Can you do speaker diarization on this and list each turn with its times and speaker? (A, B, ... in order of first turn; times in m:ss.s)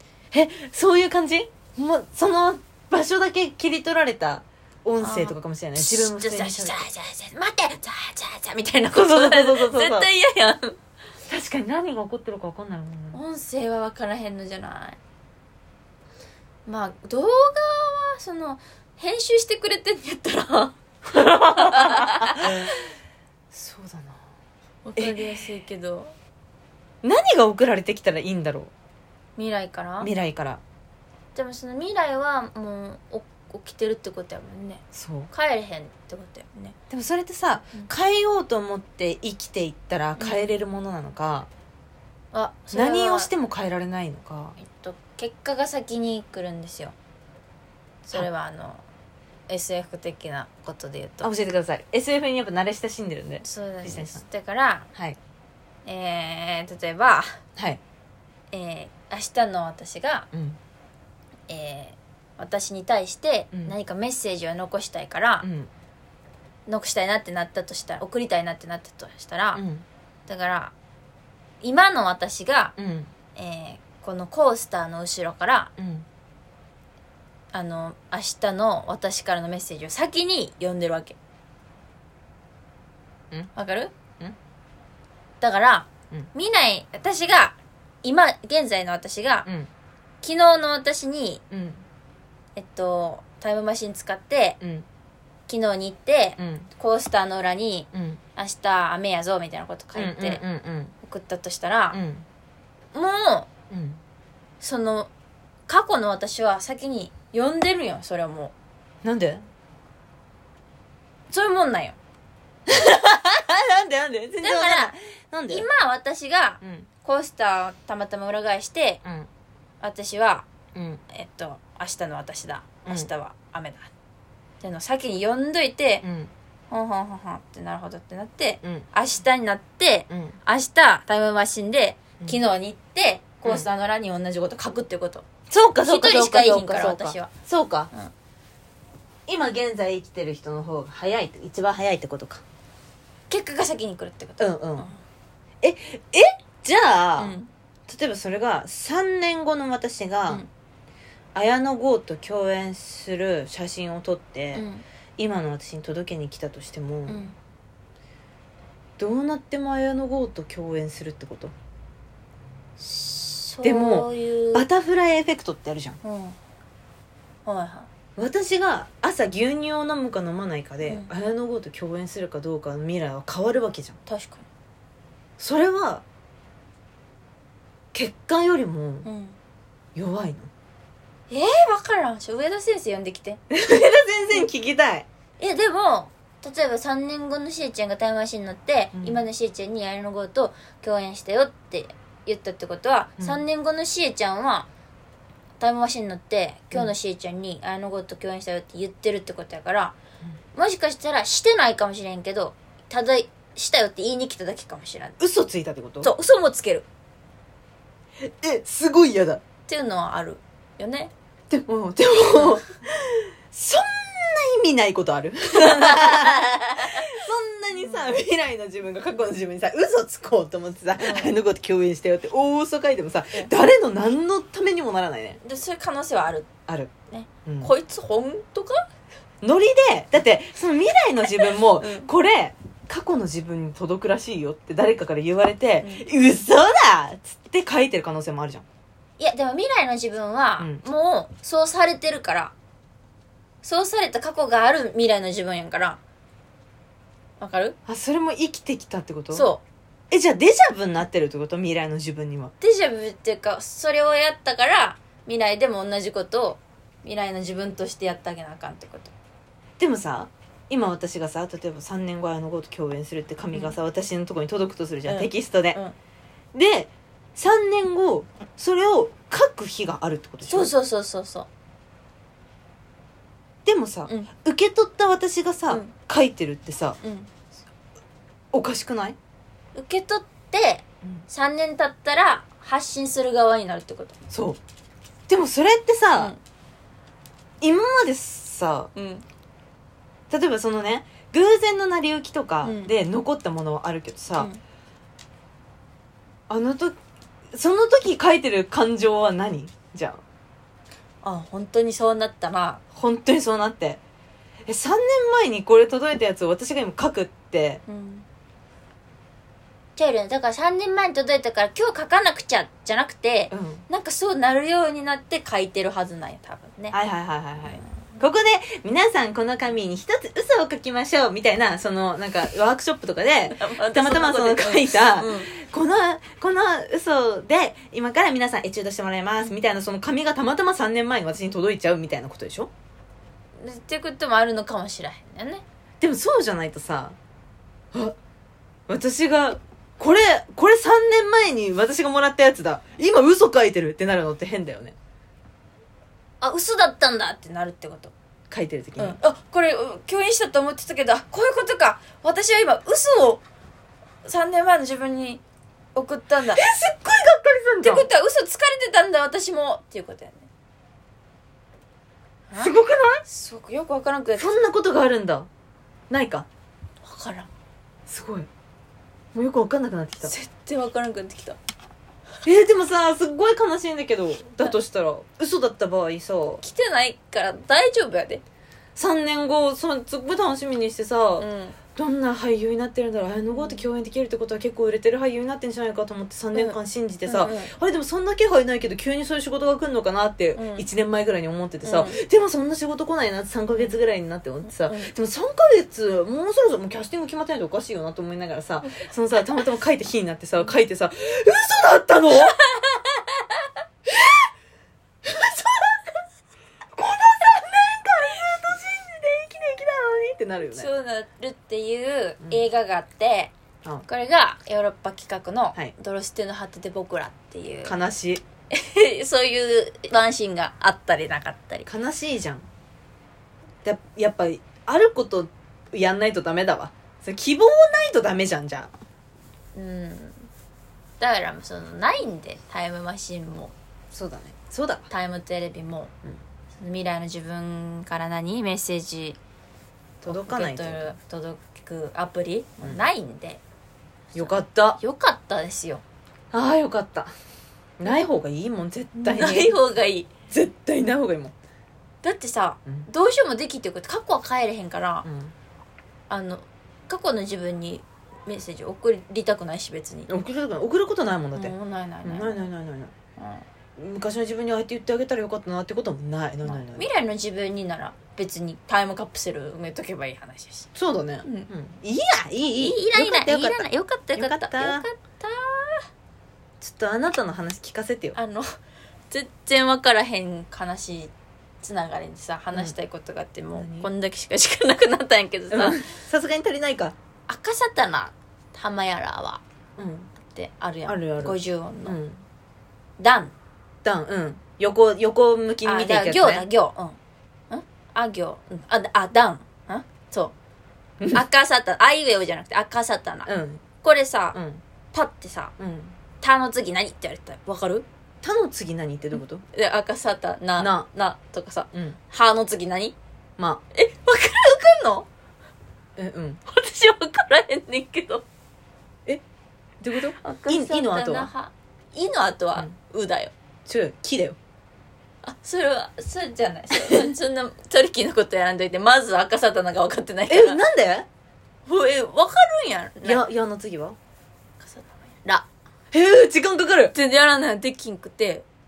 0:00.3-0:06.8 A
0:05.0-0:10.8 B
0:08.9-0:10.1 A
0:11.3-0:13.2 A
0:13.1-0:15.0 B
0:16.6-0:22.7 B
0:21.1-0:22.7 A
0:23.5-0:24.2 A
0:24.8-0:26.1 B
0:27.0-0:28.7 A
0:29.4-0:30.1 B
0:30.0-0:30.6 A
0:31.3-0:36.8 B
0:34.9-0:35.3 A
0:36.9-0:41.5 A
0:40.2-0:40.5 B
0:42.3-0:43.3 B
0:42.7-0:44.6 A
0:44.6-0:46.9 B
0:48.1-0:48.8 B
0:49.5-0:51.3 B
0:51.2-0:54.2 A
0:53.4-0:54.9 B
0:55.8-0:57.4 B
0:58.5-1:00.3 B
1:00.3-1:00.6 A
1:01.5-1:05.5 B
1:05.4-1:05.7 A
1:06.7-1:09.6 B
1:09.5-1:09.8 A
1:10.3-1:10.7 B
1:11.6-1:12.7 B
1:12.8-1:13.1 A
1:13.4-1:15.7 B
1:15.8-1:16.1 A
1:17.5-1:21.2 B
1:23.5-1:23.9 B
1:25.4-1:29.5 B
1:30.2-1:31.4 B
1:31.5-1:31.8 A
1:32.6-1:34.6 B
1:34.6-1:34.8 A
1:35.5-1:40.4 B
1:36.4-1:36.7 A
1:37.9-1:38.2 A
1:40.0-1:40.9 A
1:41.0-1:42.0 B
1:41.9-1:42.2 A
1:42.9-1:43.5 B
1:43.7-1:44.0 A
1:44.6-1:45.1 B
1:45.7-1:48.5 B
1:49.0-1:49.4 A
1:51.3-1:52.0 B
1:52.7-1:55.7 A
1:54.4-1:54.9 B
1:55.5-1:59.0 B
1:56.6-1:56.9 A
1:59.8-2:00.4 B
2:00.7-2:01.0 A
2:01.1-2:03.9 B
2:04.6-2:06.0 B
2:06.0-2:06.3 A
2:06.7-2:15.2 B
2:10.1-2:10.4 A
2:15.5-2:17.9 A
2:15.8-2:17.3 B
2:19.3-2:22.4 A
2:23.3-2:25.0 B
2:24.4-2:24.9 A
2:25.6-2:27.4 A
2:27.2-2:27.5 B
2:27.9-2:30.4 A
2:31.3-2:34.6 A
2:34.5-2:34.8 B
2:35.2-2:37.2 A
2:37.1-2:37.3 B
2:39.0-2:41.5 A
2:42.8-2:44.6 B
2:43.6-2:46.0 A
2:46.0-2:46.4 B
2:47.4-2:47.9 B
2:48.2-2:54.0 A
2:50.8-2:51.1 B
2:54.1-2:54.4 B
2:55.4-2:56.0 A
2:57.9-2:59.1 A
2:59.0-2:59.4 B
2:59.9-3:00.5 A
3:01.3-3:03.4 B
3:03.5-3:05.1 A
3:05.4-3:14.7 B
3:08.9-3:09.2 A
3:15.6-3:20.0 B
3:20.5-3:25.2 B
3:25.2-3:26.1 A
3:26.0-3:26.8 B
3:28.2-3:29.4 A
3:29.7-3:31.1 B
3:31.5-3:45.4 A
3:35.5-3:37.0 B
3:37.7-3:38.1 B
3:41.0-3:41.4 B
3:45.4-3:46.5 B
3:46.7-3:46.9 A
3:47.1-3:48.8 B
3:47.4-3:47.7 A
3:49.4-3:58.6 A
3:51.4-3:52.1 B
3:55.8-3:56.1 B
3:59.2-4:02.5 B
4:03.6-4:06.0 B
4:07.4-4:07.8 B
4:07.9-4:09.5 A
4:09.3-4:09.6 B
4:10.1-4:12.5 A
4:12.6-4:19.1 B
4:19.8-4:25.8 A
4:23.5-4:23.8 B
4:25.0-4:26.0 B
4:26.5-4:30.7 A
4:30.4-4:31.5 B
4:33.6-4:37.0 A
4:35.7-4:35.9 B
4:37.0-4:37.3 B
4:38.5-4:39.2 A
4:39.7-4:44.2 B
4:44.3-4:44.6 A
4:45.3-4:46.3 A
4:47.6-4:48.9 A
4:48.9-4:49.2 B
4:50.3-4:54.5 A
4:52.6-4:52.9 B
4:56.5-4:56.9 A
4:57.5-5:00.2 A
5:01.2-5:02.8 B
5:02.9-5:04.0 A
5:04.6-5:07.8 A
5:07.9-5:08.2 B
5:10.0-5:17.0 B
5:13.5-5:13.8 A
5:16.9-5:32.7 A
5:23.5-5:25.5 B
5:33.6-5:35.6 B
5:36.0-5:37.2 A
5:38.9-5:45.0 A
5:46.4-5:48.1 B
5:48.5-5:49.2 A
5:49.0-5:53.4 B
5:54.2-5:55.4 B
5:55.9-5:56.6 B
5:56.5-5:58.0 A
5:57.8-6:00.5 B
6:02.5-6:02.7 B
6:02.6-6:03.2 A
6:03.3-6:04.6 B
6:04.4-6:05.5 A
6:06.1-6:06.5 A
6:07.0-6:07.5 B
6:08.1-6:08.5 A
6:09.3-6:10.3 A
6:10.2-6:11.6 B
6:12.4-6:16.6 A
6:16.6-6:18.4 B
6:19.0-6:42.6 A
6:21.4-6:21.8 B
6:23.5-6:23.9 B
6:26.5-6:27.7 B
6:30.5-6:30.9 B
6:31.8-6:32.2 B
6:34.6-6:35.1 B
6:42.7-6:43.2 B
6:44.0-6:44.5 A
6:45.2-6:46.0 A
6:47.0-6:50.9 A
6:50.7-6:53.5 B
6:54.1-6:58.0 B
6:57.8-6:58.4 A
6:58.7-7:01.9 B
7:01.8-7:02.7 A
7:03.8-7:08.9 A
7:09.7-7:10.5 B
7:11.2-7:13.7 B
7:14.1-7:15.1 A
7:15.1-7:16.1 B
7:16.8-7:19.4 B
7:20.2-7:23.6 B
7:20.2-7:21.1 A
7:24.3-7:26.0 B
7:24.3-7:25.0 A
7:26.5-7:27.3 A
7:28.0-7:29.8 A
7:29.2-7:30.3 B
7:30.5-7:31.5 A
7:32.2-7:35.3 B
7:35.2-7:35.5 A
7:36.3-7:40.3 B
7:40.3-7:43.1 A
7:41.5-7:42.7 B
7:43.4-7:43.6 B
7:44.0-7:47.1 A
7:46.6-7:50.9 B
7:51.0-7:55.0 A
7:51.4-7:51.7 B
7:52.8-7:56.0 B
7:56.8-7:58.4 A
7:58.3-7:58.7 B
7:59.3-8:06.0 B
8:03.7-8:04.1 A
8:05.7-8:07.1 A
8:07.5-8:09.6 B
8:10.0-8:10.3 A
8:10.5-8:12.2 B
8:11.1-8:12.4 A
8:13.2-8:13.5 B
8:14.0-8:16.7 A
8:15.8-8:17.2 B
8:17.7-8:20.5 B
8:21.3-8:23.5 B
8:23.5-8:23.8 A
8:24.0-8:24.6 B
8:24.5-8:24.8 A
8:25.1-8:25.7 B
8:25.8-8:26.2 A
8:26.4-8:28.0 B
8:28.4-8:29.6 A
8:29.7-8:33.2 B
8:30.8-8:31.1 A
8:31.9-8:32.2 A
8:33.9-8:35.3 B
8:36.2-8:36.6 A
8:36.7-8:38.4 B
8:40.0-8:41.5 A
8:40.4-8:43.5 B
8:43.8-8:44.6 A
8:45.4-8:50.8 B
8:46.9-8:47.3 A
8:50.5-8:51.3 A
8:51.8-8:53.4 B
8:53.2-8:54.2 A
8:54.8-8:55.7 B
8:56.1-8:57.1 A
8:57.1-8:58.6 B